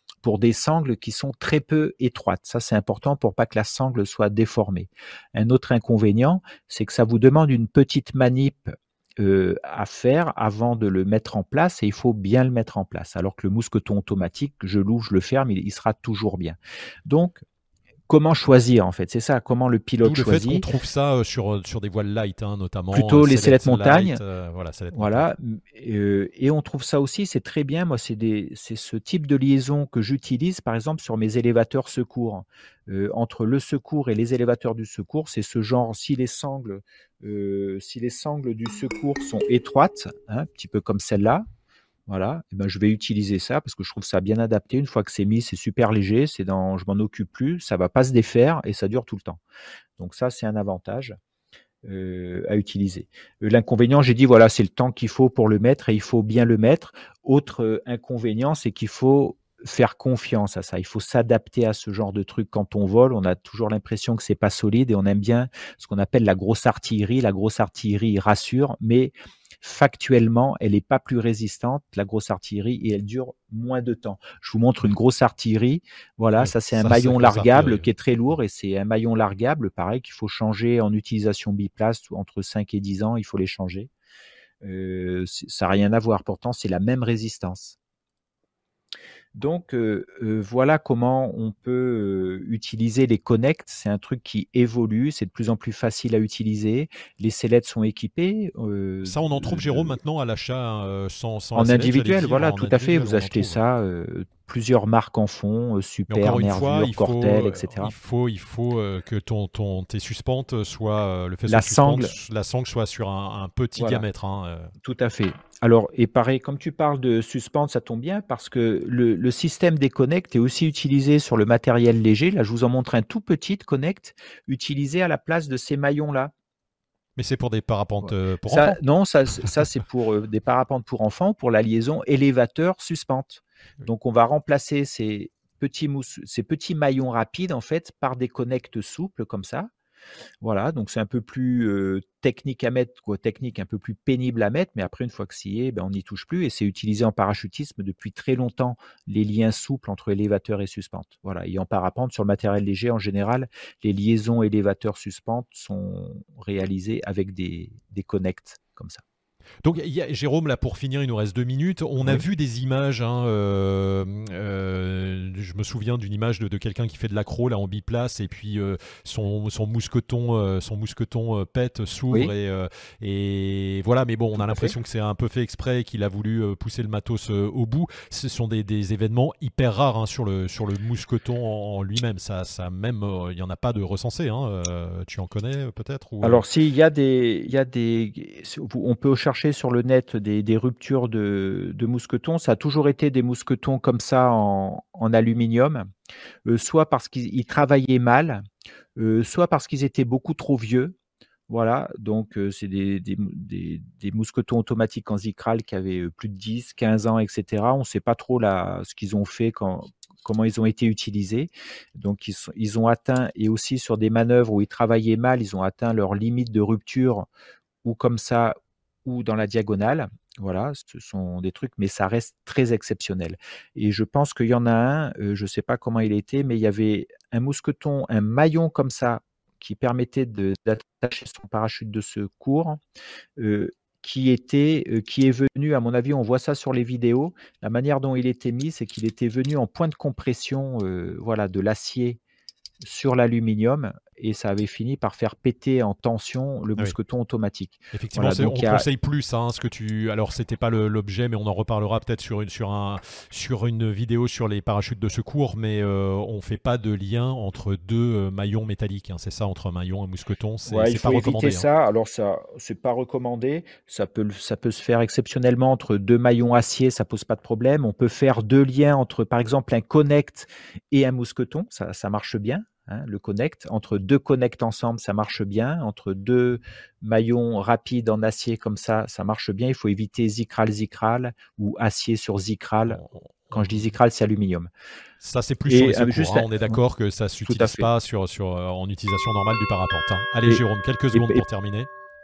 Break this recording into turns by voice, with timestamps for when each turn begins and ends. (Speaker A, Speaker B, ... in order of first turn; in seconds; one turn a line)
Speaker A: 0.2-17.4
Speaker A: 18.1-20.6
Speaker B: 20.0-25.3
Speaker A: 22.9-24.2
Speaker A: 24.9-41.4
Speaker A: 42.1-49.4
Speaker A: 50.0-51.1
Speaker A: 51.8-83.9
Speaker B: 76.4-77.9
Speaker A: 84.6-87.8
Speaker A: 89.3-100.0
Speaker B: 99.0-103.6
Speaker A: 101.5-107.9
Speaker B: 106.1-114.7
Speaker A: 111.5-112.1
Speaker A: 113.8-114.0
Speaker A: 114.8-126.3
Speaker B: 127.2-128.8
Speaker A: 128.0-139.7
Speaker A: 140.4-159.0
Speaker B: 159.6-186.4
Speaker A: 174.4-174.7
Speaker A: 186.2-195.8
Speaker A: 196.4-198.4
Speaker A: 199.0-200.9
Speaker A: 201.5-217.3
Speaker A: 217.8-232.8
Speaker A: 233.4-242.2
Speaker A: 242.8-248.8
Speaker B: 247.9-261.6
Speaker A: 260.6-284.7
Speaker B: 282.9-283.9
Speaker B: 285.2-291.9
Speaker A: 285.7-286.8
Speaker A: 287.4-287.9
Speaker A: 290.4-291.4